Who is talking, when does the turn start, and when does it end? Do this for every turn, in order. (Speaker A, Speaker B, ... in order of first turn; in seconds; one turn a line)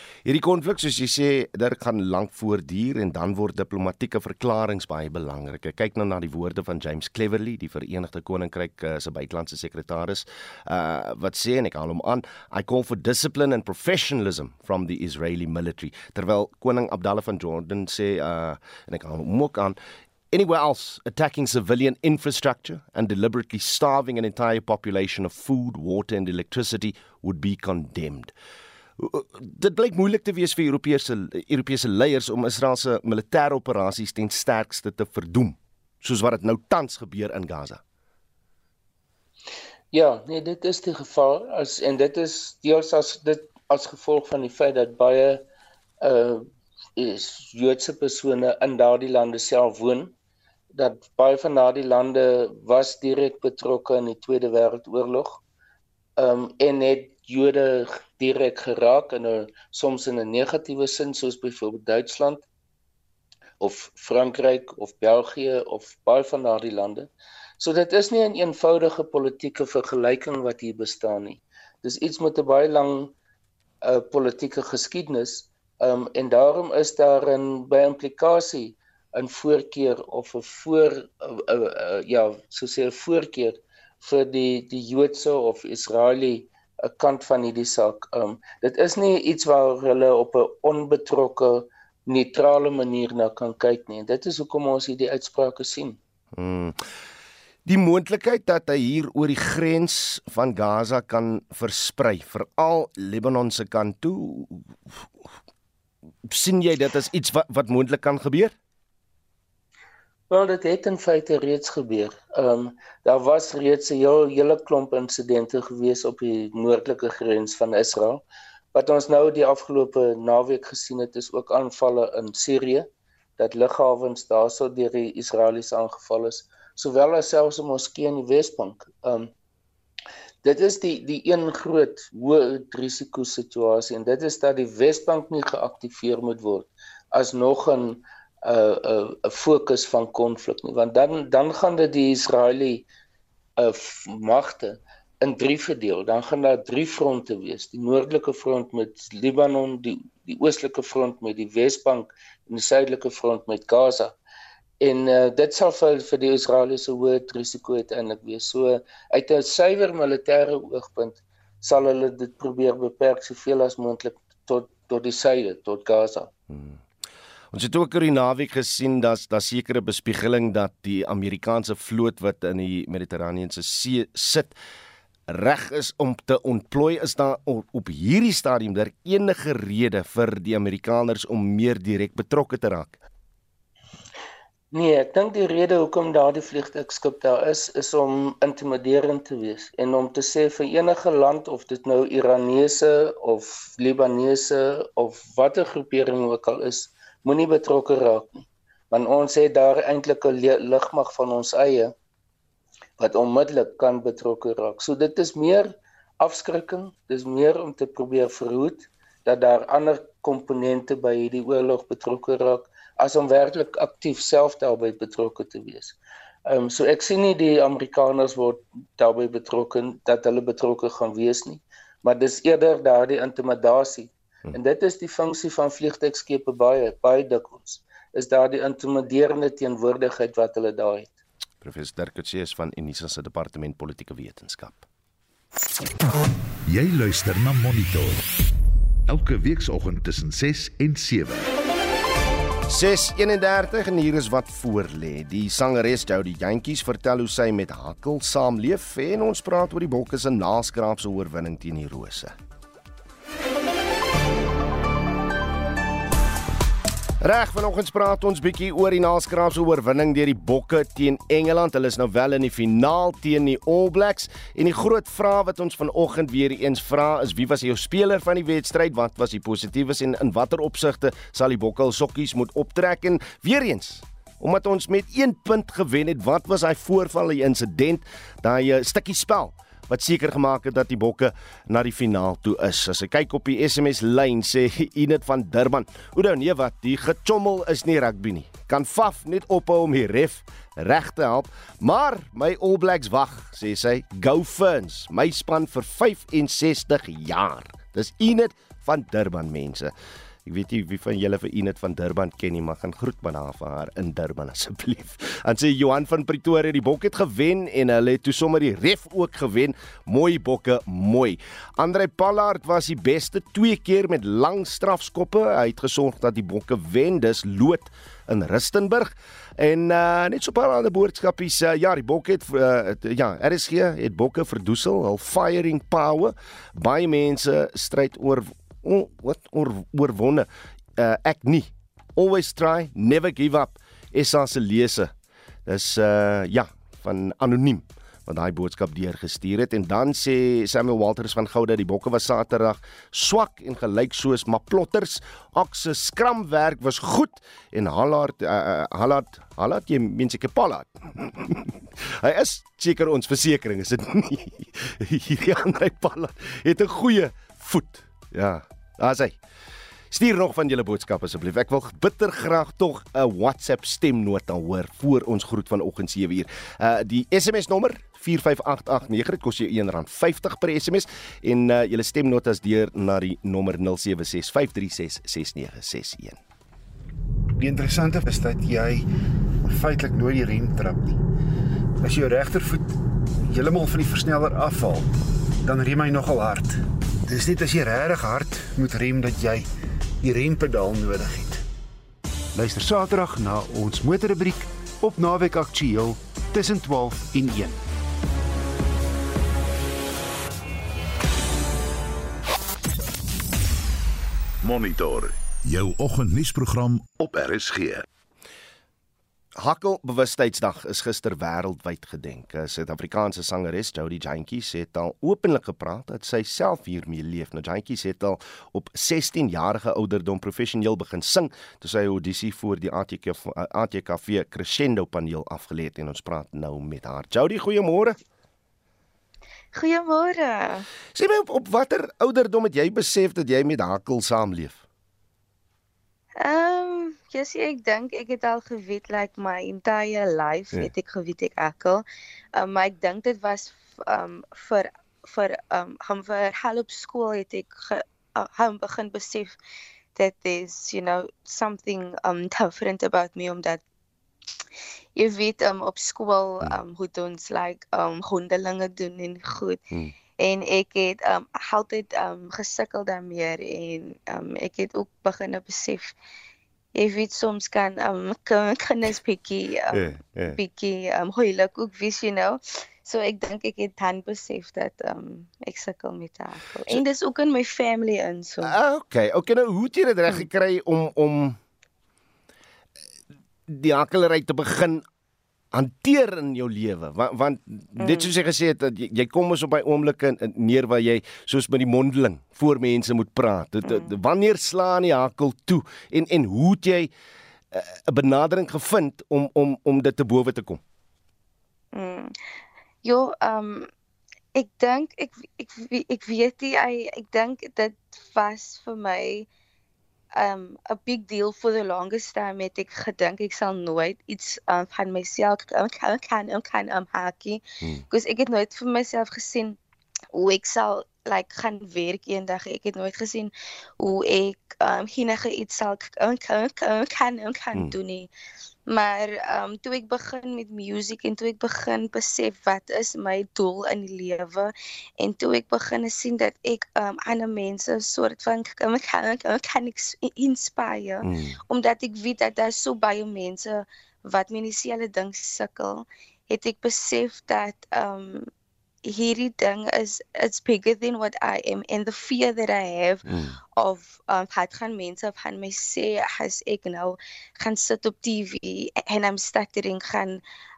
Speaker A: 0.2-19.8
Speaker A: 20.3-28.3
Speaker A: 29.0-37.8
Speaker B: 39.9-45.4
Speaker B: 46.0-46.4
Speaker B: 47.0-50.1
Speaker B: 50.7-55.4
Speaker B: 56.2-62.4
Speaker B: 63.6-67.1
Speaker B: 67.6-73.1
Speaker B: 73.8-96.0
Speaker A: 96.3-96.8
Speaker A: 97.7-105.3
Speaker A: 106.3-108.5
Speaker B: 110.3-118.2
Speaker B: 118.7-129.3
Speaker B: 130.4-142.8
Speaker B: 143.6-154.1
Speaker B: 154.8-166.3
Speaker A: 166.5-166.8
Speaker A: 167.5-174.6
Speaker A: 175.3-183.0
Speaker B: 184.7-201.9
Speaker B: 203.0-231.1
Speaker A: 231.6-234.8
Speaker C: 236.7-238.2
Speaker C: 239.1-241.5
Speaker A: 242.7-252.3
Speaker A: 257.2-299.9
Speaker A: 300.4-335.1
Speaker A: 335.6-359.4
Speaker A: 360.1-376.4
Speaker D: 377.6-379.1
Speaker D: 379.6-381.2
Speaker D: 382.0-382.9
Speaker D: 383.4-385.1
Speaker D: 385.6-389.7
Speaker D: 390.2-391.6
Speaker D: 392.5-397.8
Speaker C: 404.6-408.0
Speaker A: 409.5-428.2
Speaker E: 429.7-430.8
Speaker A: 431.1-434.8
Speaker E: 436.4-442.0
Speaker E: 442.6-449.6
Speaker E: 450.1-453.8
Speaker E: 455.1-459.8
Speaker E: 460.4-466.1
Speaker E: 466.9-470.0
Speaker A: 469.9-470.6
Speaker E: 470.5-478.7
Speaker A: 478.6-481.6
Speaker A: 483.7-485.0
Speaker A: 485.7-497.1
Speaker E: 488.0-488.3
Speaker A: 497.7-500.8
Speaker E: 501.9-502.3
Speaker E: 503.0-503.9
Speaker E: 504.5-509.4
Speaker E: 510.4-519.8
Speaker E: 520.3-528.3
Speaker E: 528.9-548.5
Speaker A: 541.2-541.6
Speaker E: 549.1-553.2
Speaker A: 553.2-553.6
Speaker E: 553.8-560.4